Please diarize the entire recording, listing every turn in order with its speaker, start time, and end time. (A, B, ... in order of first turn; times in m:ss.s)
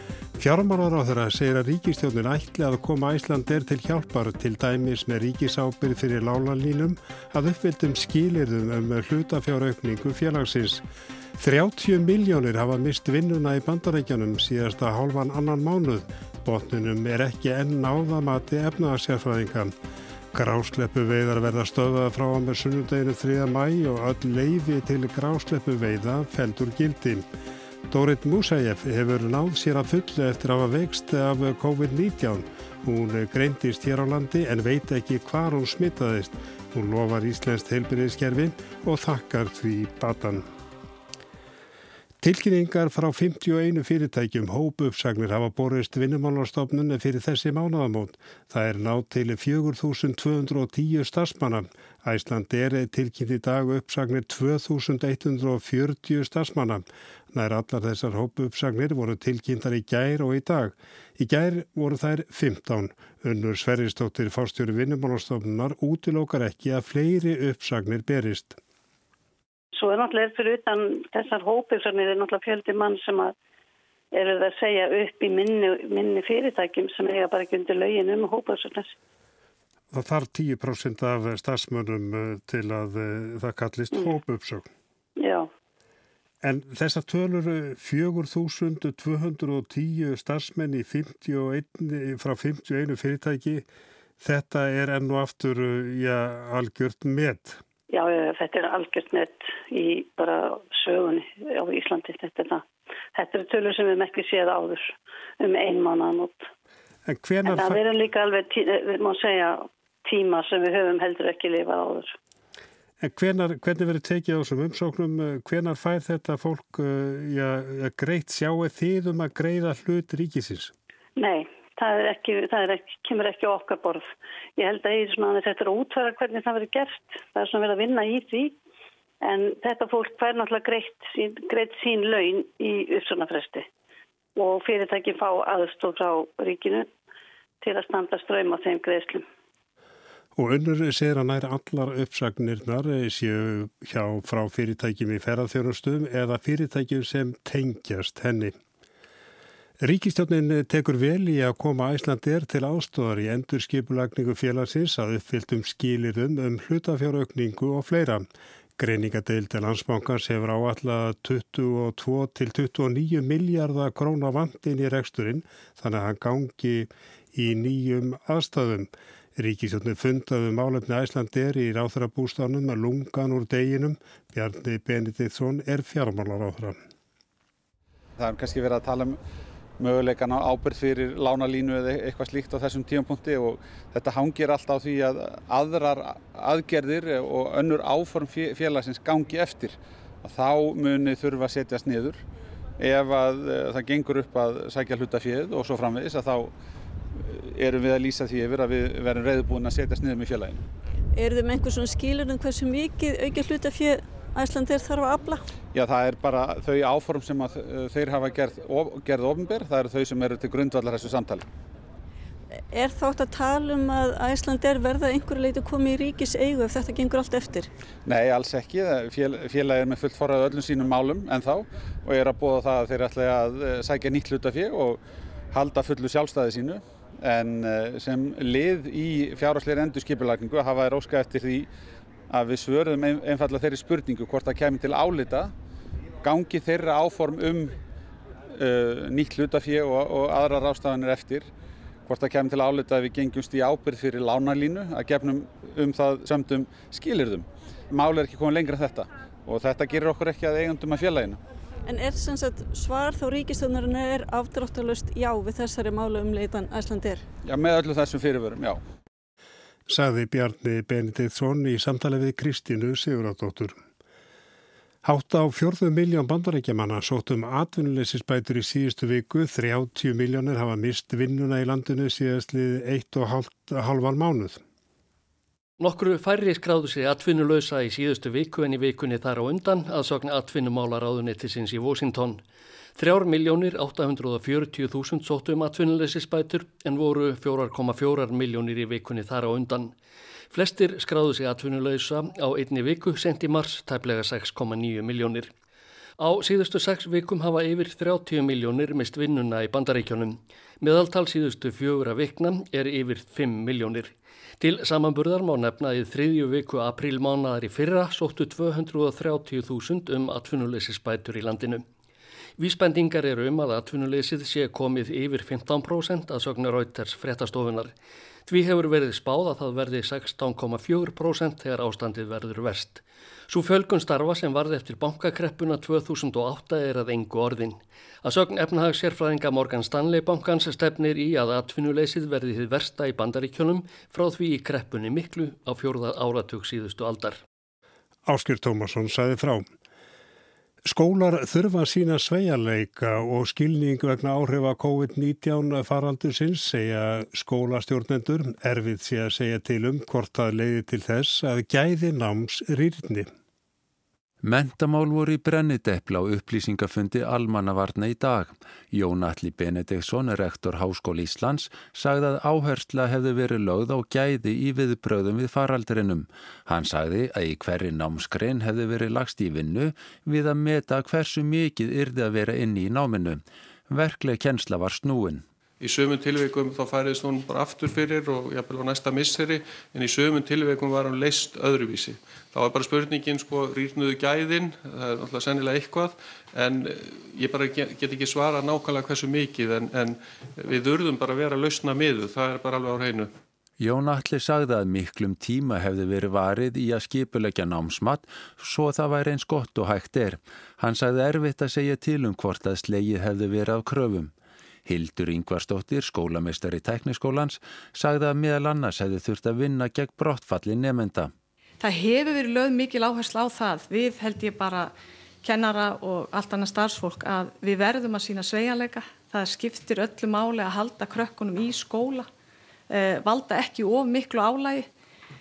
0:00.4-0:10.8 A
0:11.4-0:19.7 A
0:20.3-0:27.2 A
0:27.9-0:40.4 A
0:42.2-1:08.6 A
1:09.8-1:13.3 B
1:14.1-1:18.9 B
1:19.9-1:24.7 A
1:25.2-1:25.5 B
1:26.4-1:33.6 A
1:34.2-1:37.6 A
1:37.9-1:46.5 B
1:47.1-1:47.8 A
1:47.4-1:52.2 B
1:53.0-2:00.7 A
2:01.2-2:08.6 B
2:09.2-2:13.7 B
2:14.4-2:16.9 B
2:17.6-2:19.2 B
2:20.4-2:28.6 A
2:29.8-2:38.3 A
2:38.8-2:56.8 A
2:58.2-2:59.2 C
2:59.8-3:12.2 C
3:12.8-3:16.5 C
3:17.1-3:20.6 C
3:21.1-3:25.4 D
3:25.7-3:31.4 C
3:32.7-3:37.7 D
3:38.0-3:51.7 C
3:52.3-3:55.5 C
3:56.2-3:57.8 C
3:58.5-4:01.5 C
4:02.1-4:11.4 C
4:11.8-4:17.2 D
4:17.4-4:18.8 C
4:19.9-4:23.8 A
4:25.0-4:34.6 A
4:35.8-4:42.4 E
4:43.0-4:50.0 E
4:50.5-4:55.5 E
4:56.2-5:11.9 E
5:12.6-5:17.9 E
5:18.5-5:37.4 E
5:38.2-5:39.7 A
5:40.9-5:53.3 A
5:54.4-6:15.4 F
6:15.8-6:33.3 G
6:33.8-6:44.3 F
6:44.9-6:51.3 F
6:51.8-6:54.9 H
6:55.4-7:02.3 H
7:02.9-7:04.9 H